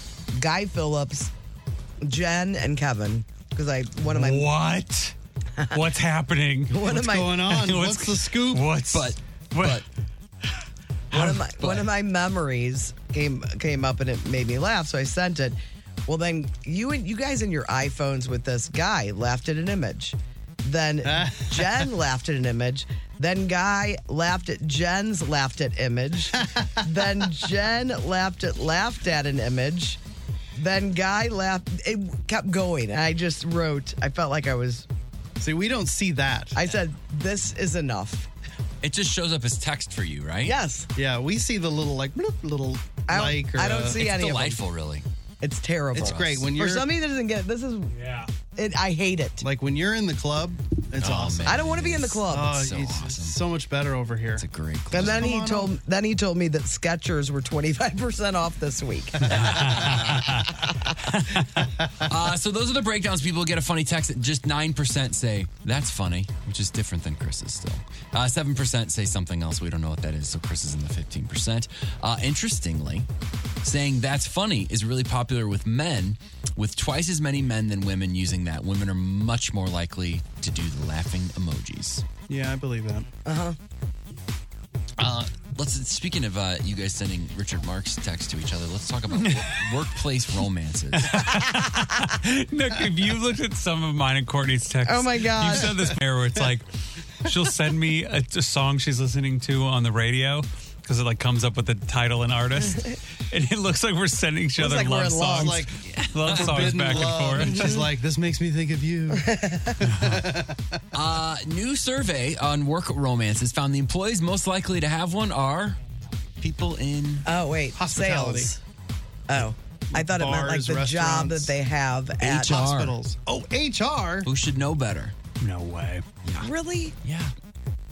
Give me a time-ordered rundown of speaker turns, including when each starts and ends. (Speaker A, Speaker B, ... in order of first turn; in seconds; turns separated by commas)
Speaker A: 0.3-1.3, Speaker A: 2.0-4.5, Speaker B: 4.1-5.1, Speaker B: 5.7-6.8, Speaker A: 6.7-7.6, Speaker C: 6.8-8.7, Speaker B: 7.5-9.8, Speaker D: 8.9-9.9, Speaker A: 11.1-30.0, Speaker D: 11.6-11.9, Speaker C: 21.1-21.8, Speaker C: 26.4-26.7, Speaker A: 30.6-34.9, Speaker C: 35.4-36.6, Speaker A: 36.5-38.3, Speaker D: 38.8-40.6, Speaker A: 40.4-40.9, Speaker C: 41.0-44.0, Speaker A: 43.1-44.6, Speaker D: 43.9-45.1, Speaker A: 45.4-48.0, Speaker C: 45.9-46.9, Speaker D: 46.0-46.5, Speaker A: 48.5-49.5, Speaker C: 49.4-51.6, Speaker D: 51.0-53.4, Speaker A: 51.4-52.6, Speaker C: 52.3-55.7, Speaker D: 54.4-55.3, Speaker A: 54.9-60.1, Speaker B: 59.2-60.5, Speaker B: 61.0-61.5, Speaker D: 62.1-73.1, Speaker D: 73.6-82.0, Speaker C: 82.3-83.1, Speaker A: 83.2-83.6, Speaker D: 85.0-91.2, Speaker B: 89.2-89.6, Speaker B: 91.0-96.7, Speaker A: 94.8-95.8, Speaker B: 97.2-107.7, Speaker A: 104.6-105.7, Speaker C: 105.3-109.3, Speaker D: 106.2-107.1, Speaker A: 107.4-107.9, Speaker A: 109.1-109.8, Speaker B: 109.8-110.2, Speaker C: 110.0-110.7, Speaker D: 110.9-115.8, Speaker D: 116.4-117.3, Speaker A: 117.2-118.6, Speaker C: 117.8-118.5, Speaker A: 119.3-122.6, Speaker C: 119.9-121.5, Speaker D: 122.2-123.0, Speaker C: 122.3-124.3, Speaker D: 124.2-125.1, Speaker B: 125.4-126.0, Speaker D: 126.2-126.5, Speaker A: 126.4-127.0, Speaker D: 127.0-127.3